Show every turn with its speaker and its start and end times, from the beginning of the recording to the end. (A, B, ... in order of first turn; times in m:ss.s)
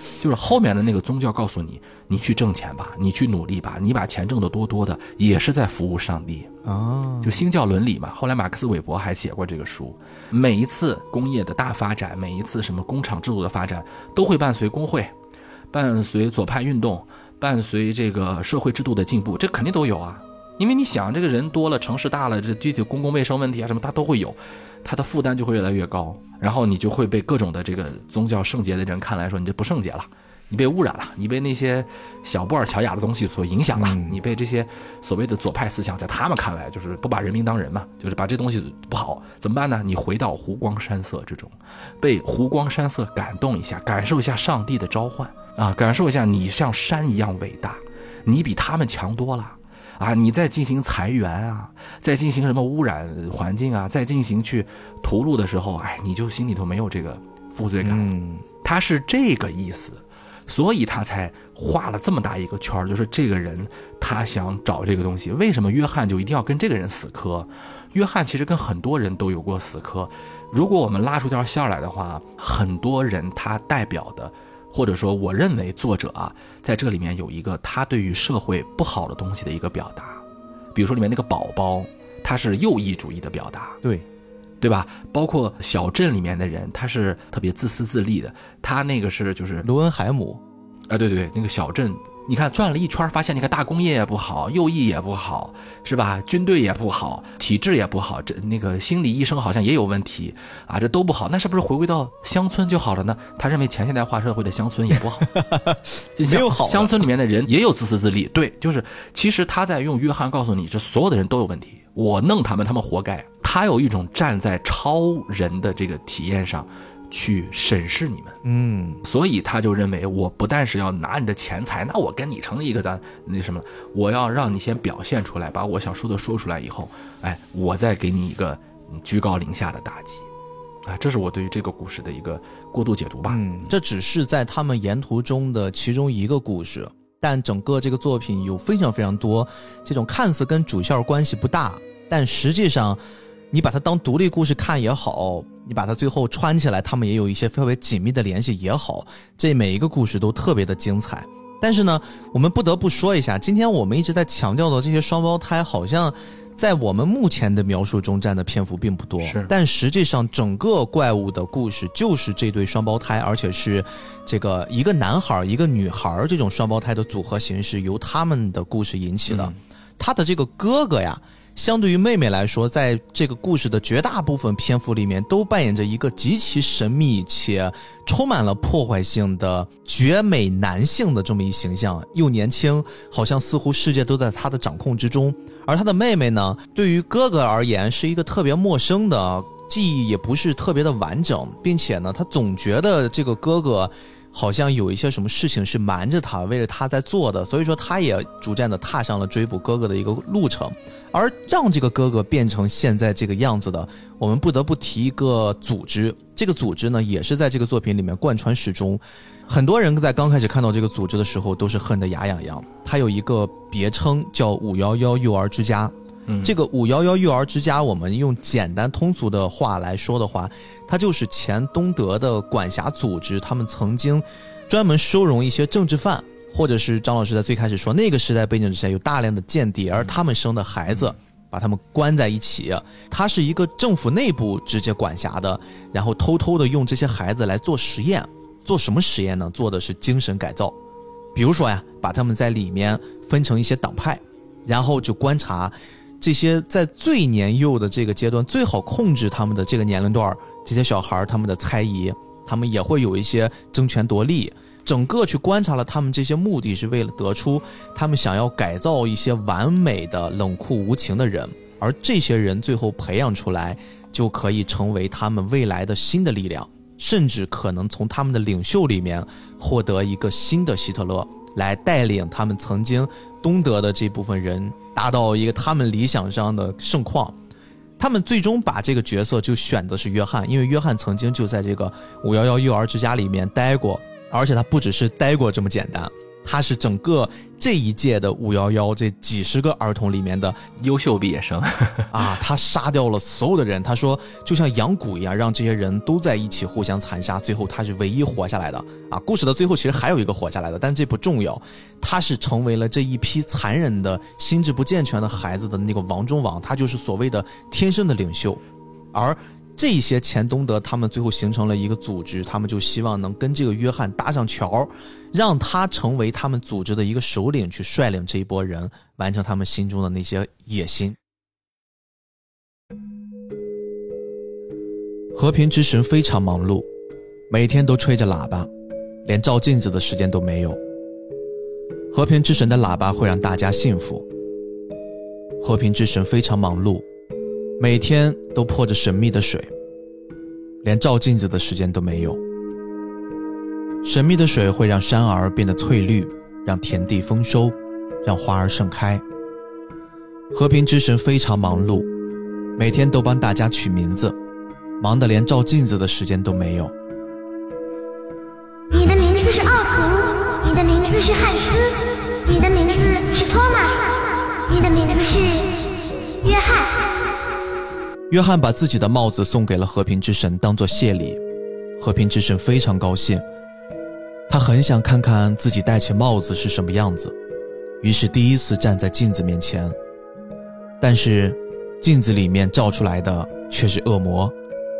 0:00.2-0:06.5 A
0:06.6-0:07.4 B
0:07.2-0:15.2 A
0:15.7-0:58.1 A
0:33.8-0:34.2 B
0:57.8-0:58.4 B
0:58.6-1:20.2 A
1:20.7-1:23.8 A
1:24.6-1:29.7 A
1:29.6-1:30.4 B
1:30.9-1:45.3 A
1:45.4-1:47.1 B
1:46.2-1:58.4 A
1:58.4-1:59.0 B
1:59.0-2:10.3 A
2:10.8-2:13.7 A
2:13.3-4:00.8 B
2:39.2-2:39.5 A
2:49.3-2:49.6 A
3:36.3-3:36.5 A
4:01.4-4:37.4 B
4:38.0-4:50.6 B
4:50.8-4:52.2 A
4:52.1-5:08.6 B
5:09.1-5:21.2 B
5:25.3-5:26.9 B
5:27.5-5:28.7 B
5:29.2-5:30.8 B
5:32.1-5:34.3 B
5:35.6-5:37.1 B
5:37.8-5:39.7 B
5:40.8-5:42.4 B
5:44.0-5:49.2 B
5:50.5-5:52.1 B
5:52.8-5:54.4 B
5:55.0-5:56.9 B
5:58.9-6:07.4 C
6:08.3-6:11.4 B
6:12.0-6:13.4 B
6:14.5-6:17.4 B
6:18.0-6:20.0 B
6:21.0-6:24.5 B